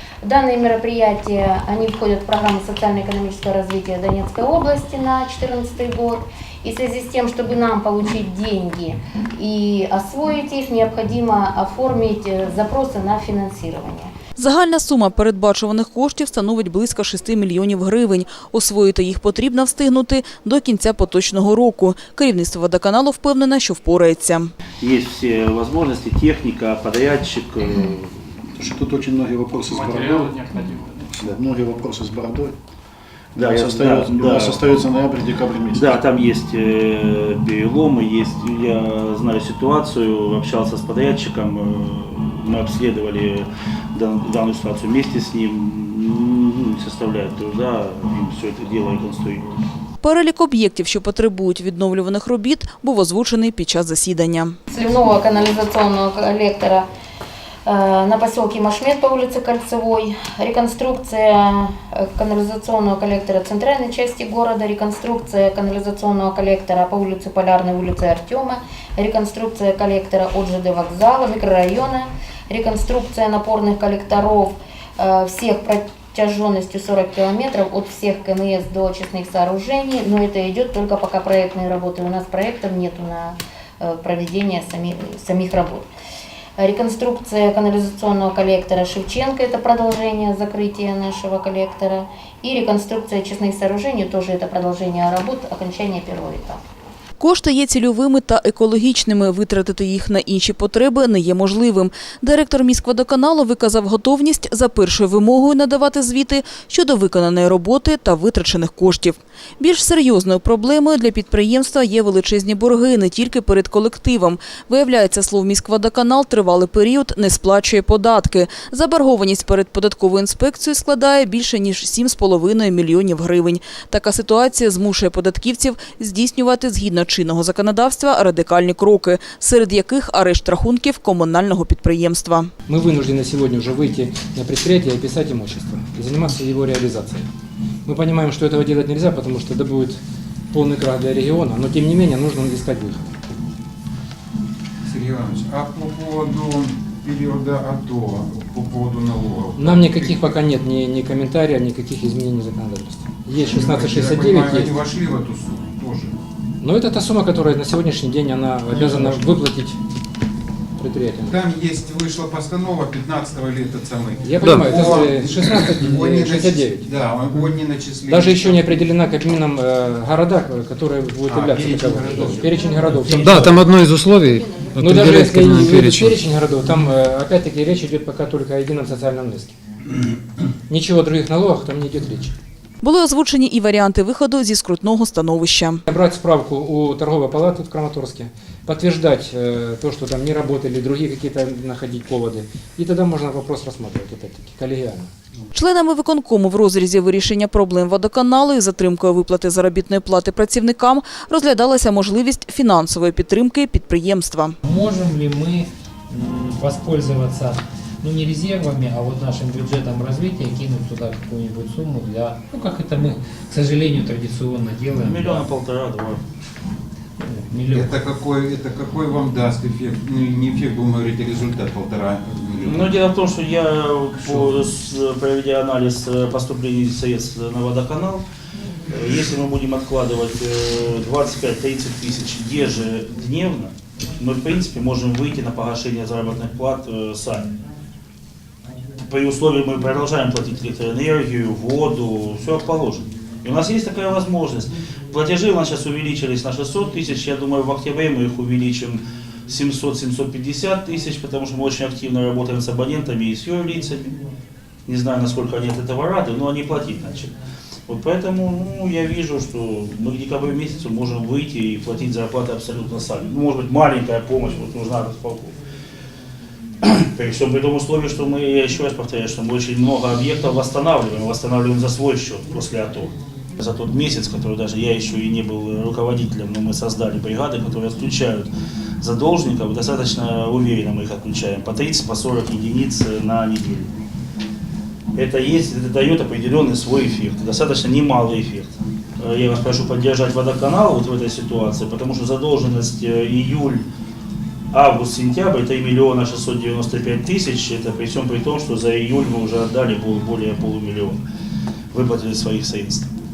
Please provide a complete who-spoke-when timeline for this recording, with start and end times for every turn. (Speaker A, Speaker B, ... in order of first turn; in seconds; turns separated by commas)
Speaker A: 0.2-14.1, Speaker B: 14.4-24.5, Speaker C: 24.8-28.3, Speaker D: 28.6-32.6, Speaker E: 29.7-31.1, Speaker C: 33.4-34.8, Speaker D: 33.4-36.0, Speaker C: 35.7-49.5, Speaker B: 50.0-54.6, Speaker A: 54.7-56.9, Speaker A: 57.7-85.9, Speaker A: 86.6-96.6, Speaker B: 97.2-132.5, Speaker F: 132.7-137.3, Speaker F: 137.8-140.0, Speaker F: 140.5-143.1, Speaker G: 144.8-150.3, Speaker F: 149.6-154.7, Speaker G: 153.4-156.1, Speaker F: 156.6-159.8, Speaker G: 158.7-159.3, Speaker F: 160.8-161.4, Speaker G: 161.3-168.8, Speaker F: 164.2-166.9, Speaker F: 168.1-173.8, Speaker G: 171.3-173.5, Speaker E: 173.2-176.2, Speaker F: 174.8-179.6, Speaker F: 180.7-182.3, Speaker B: 182.8-185.8, Speaker F: 185.9-195.1, Speaker B: 195.5-204.6, Speaker H: 204.6-215.4, Speaker C: 215.0-216.2, Speaker H: 217.2-218.0, Speaker G: 217.7-222.9, Speaker C: 222.6-228.2, Speaker G: 224.3-224.5, Speaker C: 228.9-237.5, Speaker C: 239.0-254.2, Speaker C: 254.9-257.3, Speaker C: 257.9-265.6, Speaker C: 266.8-278.5, Speaker C: 279.0-283.9, Speaker C: 285.1-293.9, Speaker C: 294.7-301.2, Speaker C: 301.9-303.1